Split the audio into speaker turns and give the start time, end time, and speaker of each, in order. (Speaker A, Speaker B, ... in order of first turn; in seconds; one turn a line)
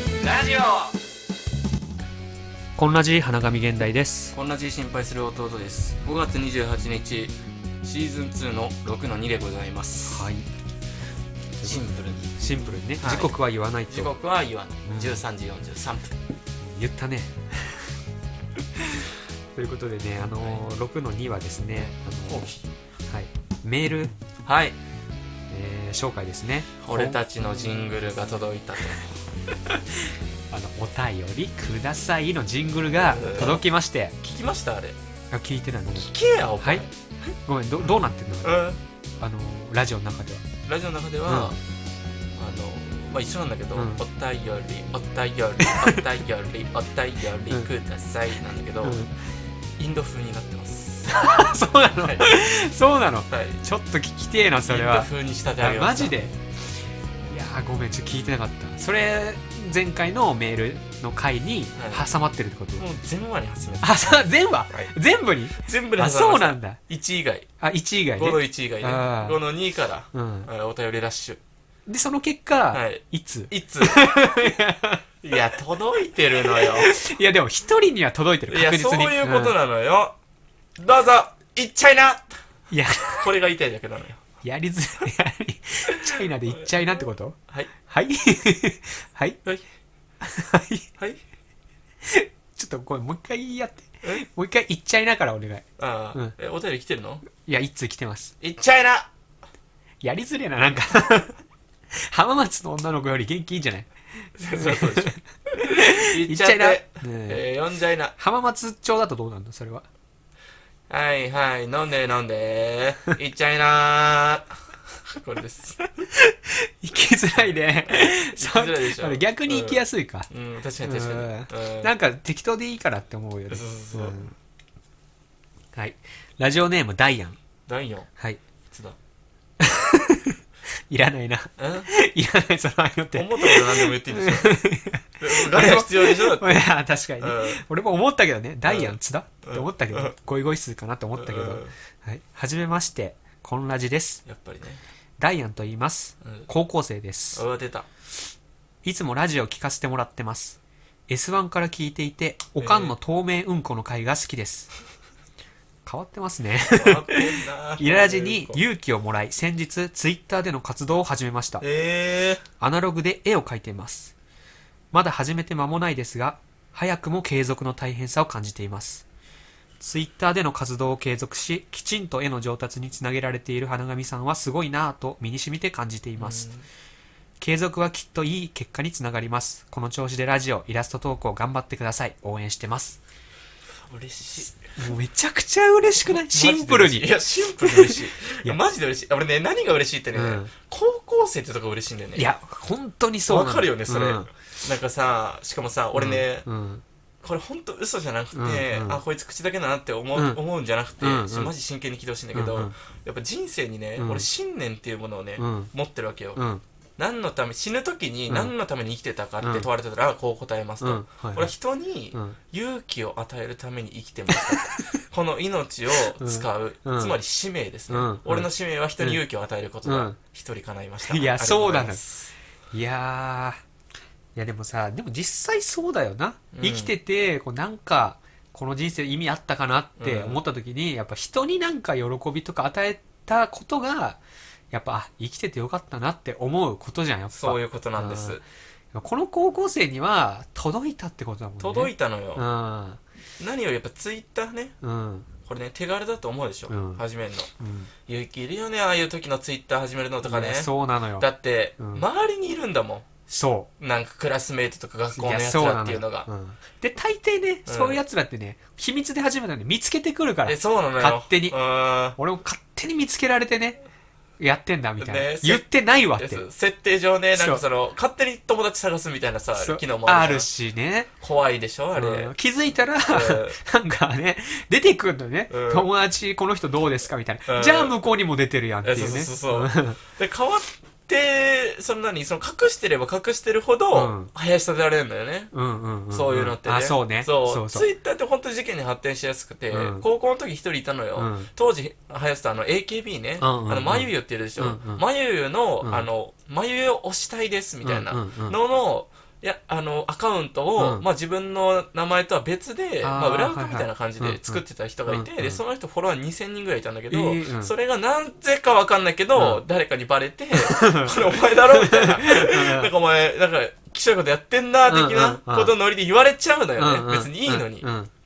Speaker A: 0.2-0.9
Speaker A: 2.8-4.4
Speaker B: 4.3-10.3
Speaker A: 10.1-10.5
Speaker A: 11.6-14.1
Speaker B: 11.6-12.3
Speaker B: 13.0-13.3
Speaker B: 13.9-16.2
Speaker A: 14.9-15.2
Speaker A: 16.6-17.9
Speaker A: 18.9-22.6
Speaker B: 21.8-22.6
Speaker A: 23.1-24.1
Speaker B: 24.4-24.8
Speaker A: 25.5-27.2
Speaker B: 26.8-29.2
Speaker A: 29.7-34.2
Speaker B: 33.1-33.6
Speaker B: 34.2-35.0
Speaker A: 35.3-36.9
Speaker B: 35.9-36.9
Speaker A: 37.5-38.6
Speaker B: 38.4-38.8
Speaker A: 39.2-40.5
Speaker B: 40.6-41.6
Speaker A: 41.3-41.6
Speaker B: 42.4-49.0
Speaker A: 43.8-44.0
Speaker A: 45.6-46.0
Speaker A: 48.8-49.1
Speaker B: 49.8-52.3
Speaker A: 51.1-56.4
Speaker B: 53.3-53.6
Speaker B: 54.7-56.1
Speaker A: 57.3-62.9
Speaker B: 61.8-62.1
Speaker B: 62.8-64.9
Speaker A: 63.8-66.8
Speaker B: 65.5-67.5
Speaker A: 67.6-69.4
Speaker B: 68.2-71.4
Speaker A: 70.1-70.5
Speaker A: 71.9-75.0
Speaker B: 72.7-74.4
Speaker B: 75.2-76.9
Speaker A: 76.4-79.5
Speaker B: 78.5-80.1
Speaker B: 80.8-82.4
Speaker A: 82.7-83.3
Speaker B: 83.1-84.2
Speaker A: 84.4-87.4
Speaker B: 86.0-86.7
Speaker A: 87.9-89.4
Speaker A: 90.2-90.9
Speaker A: 92.0-96.3
Speaker B: 95.8-97.2
Speaker A: 97.4-98.3
Speaker B: 98.4-99.1
Speaker A: 100.0-101.4
Speaker A: 101.9-107.4
Speaker B: 104.4-108.1
Speaker A: 108.2-109.9
Speaker B: 110.9-114.5
Speaker B: 115.1-116.1
Speaker A: 116.1-120.3
Speaker B: 117.4-121.9
Speaker A: 120.8-124.3
Speaker B: 123.5-124.2
Speaker A: 125.8-127.4
Speaker B: 127.7-128.1
Speaker B: 128.7-129.0
Speaker A: 129.6-130.4
Speaker A: 130.9-144.2
Speaker B: 131.6-131.9
Speaker B: 133.2-134.7
Speaker B: 135.2-136.6
Speaker B: 137.2-137.6
Speaker B: 138.7-140.1
Speaker B: 141.2-141.7
Speaker B: 144.3-144.8
Speaker A: 145.2-147.4
Speaker B: 147.3-147.9
Speaker A: 148.8-154.7
Speaker B: 152.6-152.9
Speaker A: 155.9-161.7
Speaker B: 156.7-158.6
Speaker B: 161.6-162.4
Speaker A: 162.6-164.1
Speaker A: 164.9-169.0
Speaker A: 169.8-176.5
Speaker B: 176.2-176.7
Speaker A: 177.4-183.0
Speaker B: 183.8-184.6
Speaker A: 184.8-188.6
Speaker B: 186.1-192.3
Speaker A: 190.1-190.5
Speaker A: 192.2-194.3
Speaker B: 193.3-196.5
Speaker A: 195.9-196.8
Speaker B: 197.2-206.4
Speaker A: 198.3-199.0
Speaker A: 200.2-200.4
Speaker A: 201.0-201.5
Speaker A: 202.3-202.7
Speaker A: 204.0-204.3
Speaker A: 205.4-205.7
Speaker A: 206.4-206.6
Speaker B: 207.0-222.3
Speaker A: 209.4-209.7
Speaker A: 210.8-211.5
Speaker A: 214.3-214.8
Speaker A: 216.2-217.2
Speaker A: 217.9-218.5
Speaker A: 219.8-220.2
Speaker A: 221.0-222.0
Speaker A: 222.7-223.6
Speaker A: 224.4-238.4
Speaker B: 226.5-226.9
Speaker B: 230.0-230.4
Speaker B: 237.3-238.4
Speaker A: 238.9-243.0
Speaker B: 241.6-242.4
Speaker B: 243.4-244.8
Speaker A: 244.8-245.3
Speaker B: 245.4-247.5
Speaker A: 246.7-247.0
Speaker A: 247.6-247.9
Speaker B: 248.1-253.1
Speaker A: 250.2-251.3
Speaker A: 251.8-252.1
Speaker A: 253.3-253.7
Speaker B: 253.8-256.3
Speaker A: 255.2-261.6
Speaker B: 257.7-258.0
Speaker B: 260.5-262.2
Speaker A: 262.2-263.8
Speaker A: 264.4-266.4
Speaker B: 265.0-270.5
Speaker A: 267.4-267.6
Speaker A: 269.6-271.1
Speaker B: 271.2-272.3
Speaker A: 272.0-280.0
Speaker B: 273.1-273.6
Speaker B: 275.5-275.9
Speaker B: 277.5-277.9
Speaker B: 278.8-285.5
Speaker A: 283.9-284.3
Speaker A: 285.5-287.9
Speaker B: 286.1-317.9
Speaker A: 289.7-290.1
Speaker A: 291.2-291.5
Speaker A: 293.4-295.0
Speaker A: 297.8-298.6
Speaker A: 300.8-301.1
Speaker A: 303.0-305.6
Speaker A: 307.1-307.7
Speaker A: 309.4-309.6
Speaker A: 310.6-312.9
Speaker A: 314.9-315.7
Speaker A: 316.8-318.1